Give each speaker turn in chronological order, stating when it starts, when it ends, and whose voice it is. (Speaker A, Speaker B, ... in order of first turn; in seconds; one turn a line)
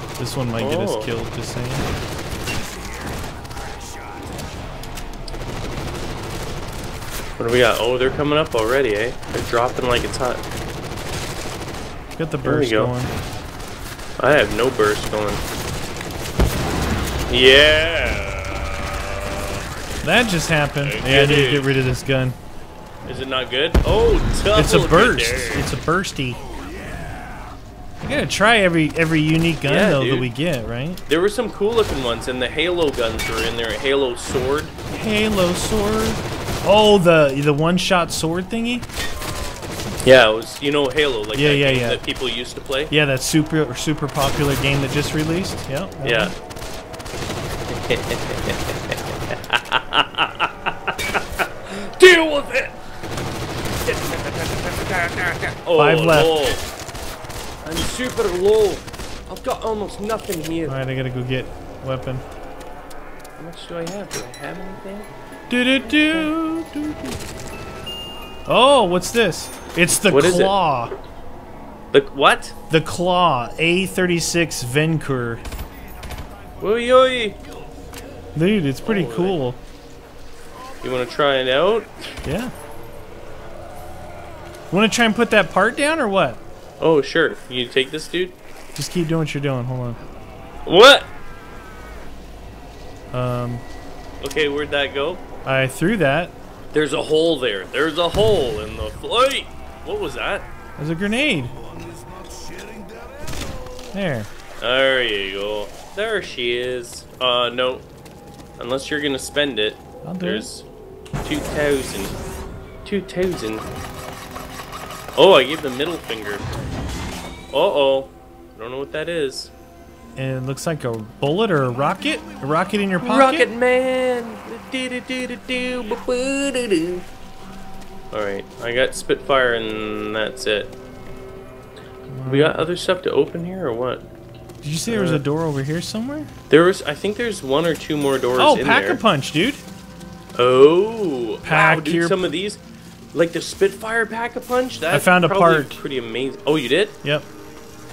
Speaker A: 0.2-1.9
Speaker B: 0.6-1.1
Speaker B: 7.4-10.4
Speaker A: 12.1-13.1
Speaker B: 12.4-12.9
Speaker B: 14.2-15.4
Speaker B: 17.3-19.4
Speaker A: 20.0-22.4
Speaker B: 20.8-21.8
Speaker B: 23.1-25.7
Speaker A: 24.5-26.4
Speaker A: 28.0-31.0
Speaker B: 29.6-30.3
Speaker B: 31.1-34.7
Speaker A: 34.9-38.9
Speaker B: 40.0-42.9
Speaker A: 41.3-42.0
Speaker A: 42.9-46.3
Speaker B: 46.0-46.3
Speaker B: 47.7-52.7
Speaker B: 53.8-56.6
Speaker A: 55.8-56.3
Speaker B: 57.6-60.7
Speaker A: 60.7-62.2
Speaker B: 63.4-65.1
Speaker A: 65.5-67.2
Speaker B: 65.8-66.3
Speaker A: 68.5-70.9
Speaker B: 70.1-70.5
Speaker B: 71.9-72.5
Speaker A: 72.7-75.4
Speaker B: 76.6-77.4
Speaker A: 78.3-79.6
Speaker B: 78.8-79.4
Speaker B: 80.8-82.1
Speaker A: 82.2-82.5
Speaker A: 84.7-86.4
Speaker B: 86.8-88.3
Speaker A: 88.7-90.0
Speaker B: 90.6-91.1
Speaker A: 93.1-93.6
Speaker B: 94.2-95.2
Speaker A: 95.4-96.3
Speaker B: 96.7-100.5
Speaker A: 100.8-101.5
Speaker A: 103.9-104.3
Speaker B: 104.6-107.8
Speaker B: 108.6-110.7
Speaker A: 110.0-110.5
Speaker B: 111.2-112.1
Speaker B: 112.8-113.7
Speaker B: 115.2-116.4
Speaker B: 117.5-119.5
Speaker A: 120.2-123.5
Speaker B: 123.0-127.0
Speaker B: 128.1-130.7
Speaker A: 132.1-132.6
Speaker B: 132.2-134.1
Speaker A: 134.6-136.3
Speaker B: 134.9-135.2
Speaker B: 136.5-139.0
Speaker A: 138.4-139.6
Speaker B: 140.3-142.6
Speaker A: 141.4-142.3
Speaker B: 143.1-147.0
Speaker A: 144.9-145.8